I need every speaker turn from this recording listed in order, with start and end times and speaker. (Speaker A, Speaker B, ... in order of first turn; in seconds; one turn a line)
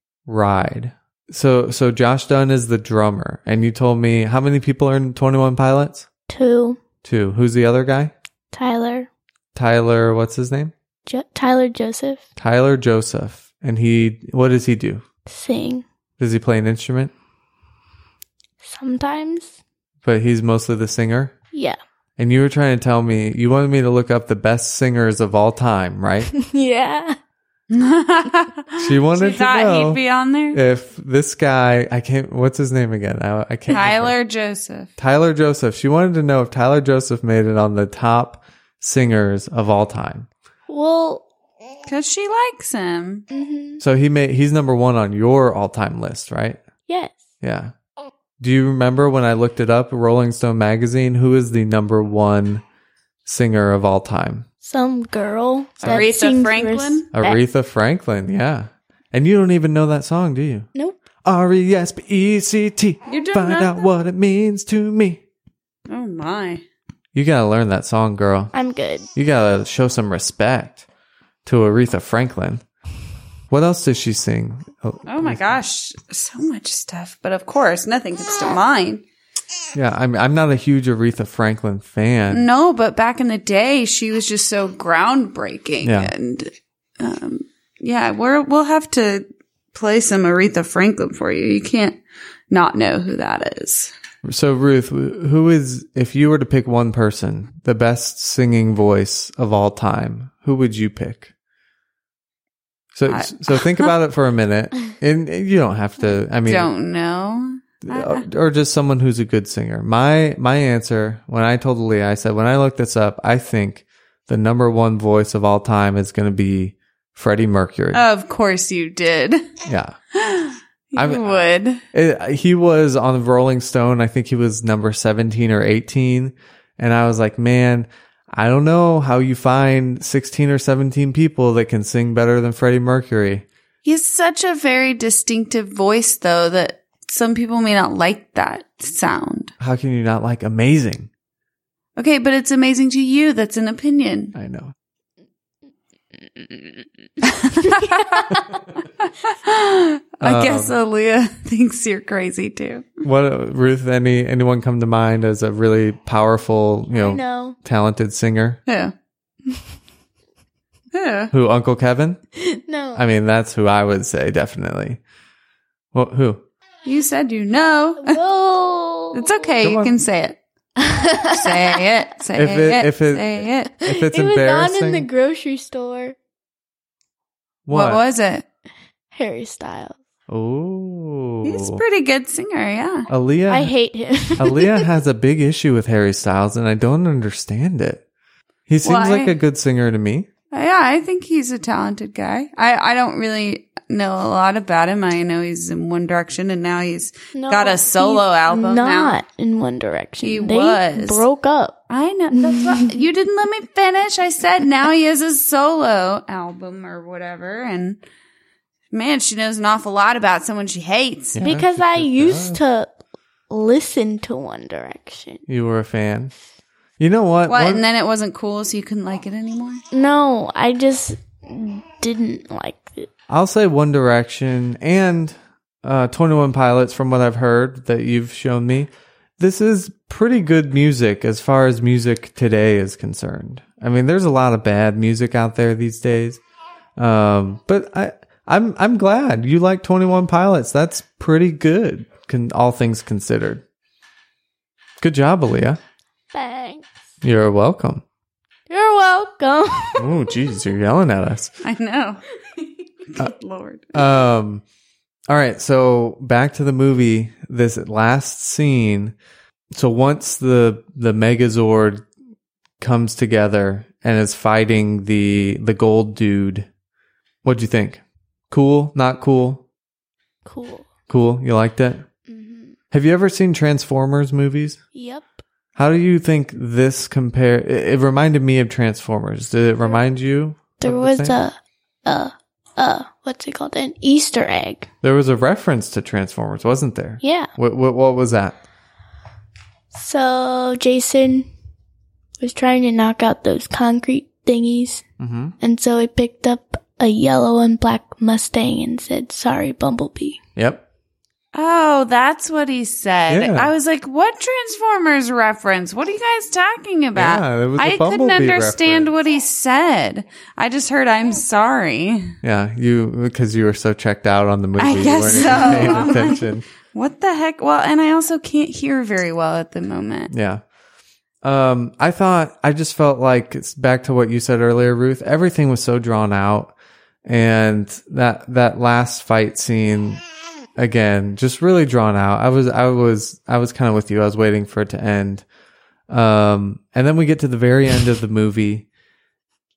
Speaker A: 0.3-6.1
Speaker B: 6.3-6.8
Speaker A: 7.0-8.1
Speaker B: 8.5-9.1
Speaker A: 9.5-10.7
Speaker B: 11.1-12.2
Speaker A: 12.4-15.0
Speaker B: 15.2-15.8
Speaker A: 16.2-17.1
Speaker B: 18.6-19.6
Speaker A: 20.0-21.3
Speaker B: 21.5-21.8
Speaker A: 22.2-26.3
Speaker B: 26.3-27.2
Speaker C: 27.7-30.6
Speaker A: 28.8-30.0
Speaker A: 30.5-34.1
Speaker C: 33.7-34.9
Speaker A: 35.0-40.3
Speaker B: 40.7-41.2
Speaker C: 41.9-43.2
Speaker B: 43.3-43.8
Speaker A: 43.8-46.6
Speaker B: 46.9-47.3
Speaker A: 47.4-47.7
Speaker A: 48.4-52.6
Speaker A: 53.2-54.5
Speaker B: 54.6-57.4
Speaker A: 55.8-56.1
Speaker C: 55.8-57.1
Speaker A: 57.1-60.7
Speaker A: 61.2-65.2
Speaker C: 63.1-63.8
Speaker C: 65.9-66.6
Speaker A: 67.1-68.5
Speaker B: 68.5-69.1
Speaker A: 69.1-70.8
Speaker A: 71.4-72.6
Speaker A: 73.5-75.6
Speaker C: 75.1-79.0
Speaker A: 79.7-82.4
Speaker C: 82.3-92.0
Speaker A: 85.8-86.1
Speaker C: 92.5-93.9
Speaker A: 94.2-101.3
Speaker A: 102.9-106.7
Speaker C: 103.1-103.9
Speaker C: 106.4-108.2
Speaker A: 107.8-118.0
Speaker C: 117.9-119.5
Speaker A: 119.7-120.0
Speaker C: 120.1-121.8
Speaker A: 121.0-133.4
Speaker C: 133.8-139.5
Speaker A: 139.6-141.1
Speaker C: 142.0-144.3
Speaker A: 144.3-144.7
Speaker C: 147.2-148.4
Speaker B: 147.6-148.1
Speaker C: 149.0-153.0
Speaker A: 150.2-150.7
Speaker A: 153.0-158.6
Speaker B: 156.9-157.6
Speaker C: 158.7-158.9
Speaker C: 160.9-161.3
Speaker A: 161.3-162.2
Speaker B: 162.4-163.0
Speaker A: 162.9-165.0
Speaker A: 165.9-166.4
Speaker C: 166.8-168.2
Speaker B: 168.0-169.5
Speaker C: 169.1-170.4
Speaker A: 169.6-169.9
Speaker B: 170.8-171.8
Speaker C: 171.2-173.8
Speaker A: 172.3-175.1
Speaker B: 173.8-176.2
Speaker A: 177.7-178.0
Speaker C: 177.7-178.4
Speaker B: 179.1-180.0
Speaker A: 180.3-181.8
Speaker C: 181.4-183.1
Speaker A: 183.1-183.7
Speaker B: 183.5-184.9
Speaker A: 184.4-188.0
Speaker A: 188.7-190.3
Speaker C: 188.8-189.3
Speaker C: 190.5-199.2
Speaker B: 197.3-201.8
Speaker C: 200.2-201.2
Speaker C: 201.9-208.0
Speaker B: 202.3-203.0
Speaker C: 208.9-211.5
Speaker A: 211.3-212.6
Speaker B: 211.4-212.9
Speaker B: 213.5-215.4
Speaker A: 215.5-216.3
Speaker A: 217.0-217.8
Speaker C: 217.5-219.8
Speaker B: 219.9-223.1
Speaker A: 223.3-236.4
Speaker A: 237.0-243.6
Speaker A: 245.0-245.8
Speaker B: 246.3-246.9
Speaker A: 247.2-248.0
Speaker B: 248.7-250.1
Speaker A: 250.0-251.5
Speaker C: 251.6-252.2
Speaker C: 253.1-254.2
Speaker A: 253.9-254.6
Speaker A: 255.3-259.1
Speaker A: 259.7-262.1
Speaker A: 262.8-266.7
Speaker A: 267.4-269.6
Speaker B: 270.4-270.9
Speaker A: 271.1-272.1
Speaker B: 272.3-272.8
Speaker A: 272.9-274.8
Speaker B: 274.9-275.3
Speaker A: 275.8-281.4
Speaker B: 280.8-284.9
Speaker A: 285.0-288.6
Speaker B: 287.2-287.5
Speaker B: 289.9-291.5
Speaker B: 292.4-295.0
Speaker A: 295.2-295.5
Speaker B: 295.6-300.4
Speaker A: 300.6-300.8
Speaker C: 301.5-312.4
Speaker A: 303.3-303.7
Speaker A: 307.1-309.1
Speaker A: 312.4-316.6
Speaker C: 314.8-320.3
Speaker A: 320.3-320.6
Speaker A: 321.4-326.7
Speaker A: 327.2-330.2
Speaker A: 330.8-335.4
Speaker A: 336.1-338.9